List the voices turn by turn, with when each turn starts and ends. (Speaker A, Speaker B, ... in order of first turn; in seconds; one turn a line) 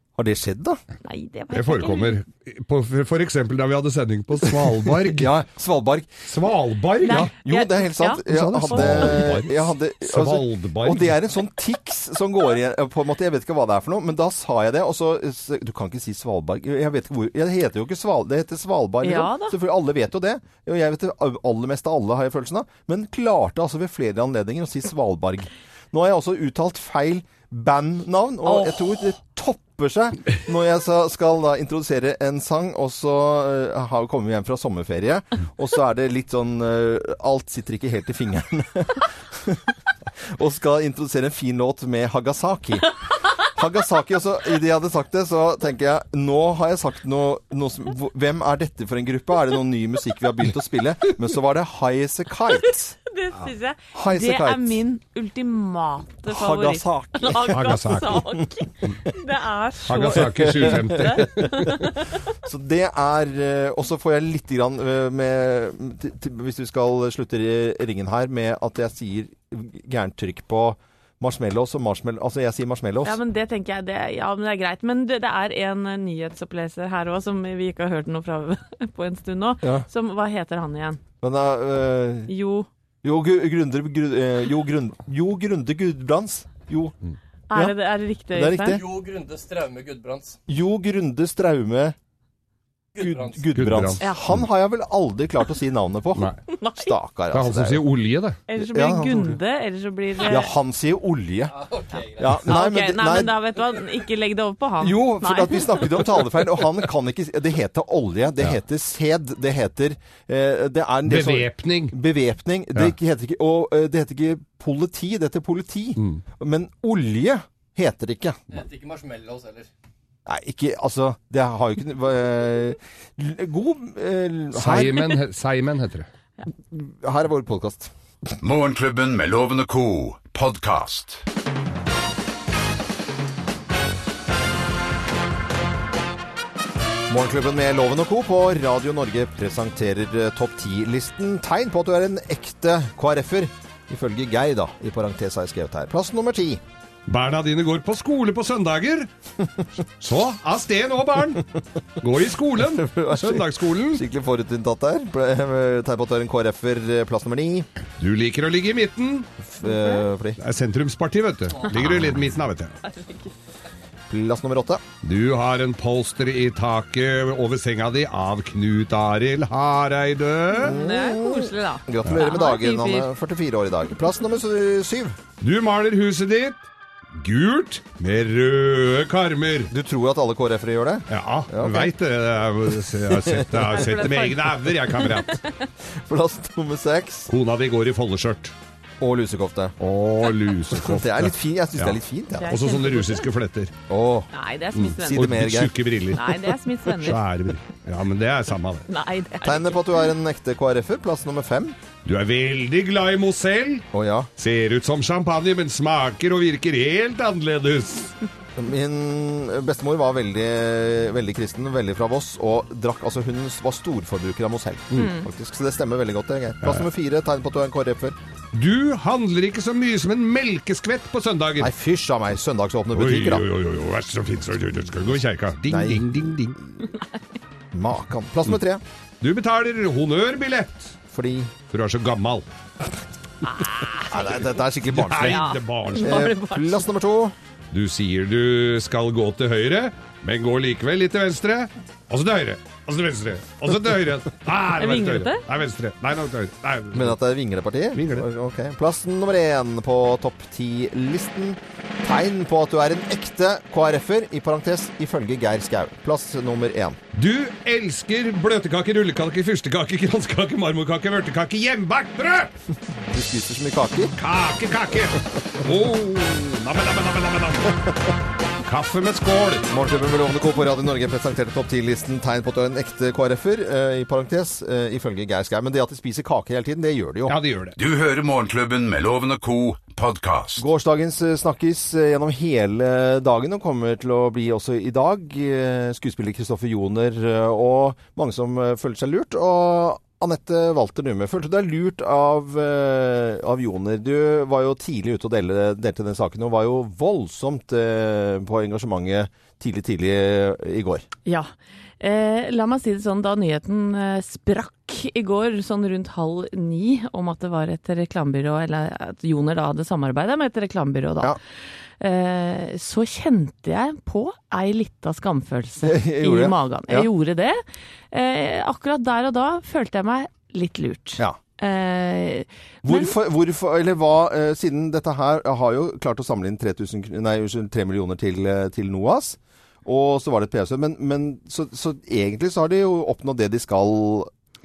Speaker A: 0.2-0.8
Speaker B: 1.0-2.2
Speaker C: 1.5-5.3
Speaker A: 4.5-6.2
Speaker C: 6.2-7.3
Speaker B: 7.0-9.3
Speaker A: 7.1-53.0
Speaker C: 8.3-11.2
Speaker B: 19.0-19.6
Speaker B: 28.4-28.8
Speaker B: 52.6-62.1
Speaker A: 53.9-54.8
Speaker A: 56.3-58.5
Speaker C: 57.5-58.2
Speaker C: 59.9-61.7
Speaker A: 60.1-73.2
Speaker B: 73.0-81.0
Speaker A: 79.6-79.9
Speaker A: 81.2-82.3
Speaker B: 82.3-82.7
Speaker A: 83.0-87.0
Speaker B: 87.5-88.8
Speaker A: 88.3-88.8
Speaker D: 88.7-90.4
Speaker A: 90.5-92.0
Speaker D: 93.0-93.6
Speaker A: 93.0-97.8
Speaker C: 93.5-94.5
Speaker B: 96.6-96.9
Speaker C: 97.3-98.4
Speaker B: 98.5-100.5
Speaker A: 98.5-99.4
Speaker A: 100.2-101.5
Speaker D: 101.5-102.5
Speaker A: 102.2-103.4
Speaker B: 102.3-105.8
Speaker A: 104.8-118.4
Speaker C: 111.1-111.9
Speaker C: 116.0-116.2
Speaker D: 118.5-119.7
Speaker A: 120.3-125.2
Speaker C: 124.5-126.1
Speaker A: 126.7-127.9
Speaker E: 128.4-131.2
Speaker A: 137.1-146.6
Speaker C: 147.1-149.1
Speaker C: 150.0-151.5
Speaker C: 152.0-154.0
Speaker A: 152.6-157.7
Speaker C: 158.0-159.3
Speaker A: 159.4-160.4
Speaker B: 159.6-160.0
Speaker C: 160.4-162.8
Speaker B: 162.8-163.3
Speaker A: 164.1-164.8
Speaker C: 165.0-170.8
Speaker B: 170.5-173.1
Speaker A: 170.6-175.2
Speaker C: 175.4-176.6
Speaker C: 177.2-179.7
Speaker A: 179.7-181.9
Speaker C: 181.1-185.4
Speaker A: 182.9-184.1
Speaker B: 183.8-184.4
Speaker A: 186.0-187.3
Speaker C: 187.3-188.5
Speaker A: 189.0-189.8
Speaker C: 189.8-193.7
Speaker A: 190.7-192.6
Speaker B: 192.4-193.3
Speaker A: 193.9-194.3
Speaker B: 194.3-195.2
Speaker C: 194.8-198.9
Speaker A: 195.0-195.8
Speaker B: 196.1-197.2
Speaker B: 198.9-199.8
Speaker A: 199.4-201.8
Speaker C: 202.1-203.9
Speaker A: 203.9-204.3
Speaker C: 204.4-208.1
Speaker A: 208.6-218.2
Speaker B: 215.0-215.3
Speaker C: 218.5-221.7
Speaker A: 221.6-223.4
Speaker C: 222.9-226.6
Speaker A: 225.7-226.1
Speaker A: 227.7-228.8
Speaker C: 229.2-230.9
Speaker A: 231.1-231.5
Speaker C: 231.7-232.5
Speaker B: 233.6-234.0
Speaker A: 234.1-235.4
Speaker C: 234.8-236.3
Speaker B: 235.2-236.9
Speaker A: 236.0-237.3
Speaker C: 237.7-247.2
Speaker B: 244.8-245.4
Speaker A: 246.9-257.0
Speaker C: 247.9-248.3
Speaker C: 257.1-262.5
Speaker A: 263.1-264.1
Speaker C: 264.2-267.9
Speaker C: 268.6-269.7
Speaker A: 269.7-277.4
Speaker C: 277.3-277.8
Speaker E: 277.8-280.7
Speaker A: 280.6-301.1
Speaker B: 301.3-311.4
Speaker B: 312.0-323.1
Speaker A: 315.8-317.1
Speaker A: 322.8-334.3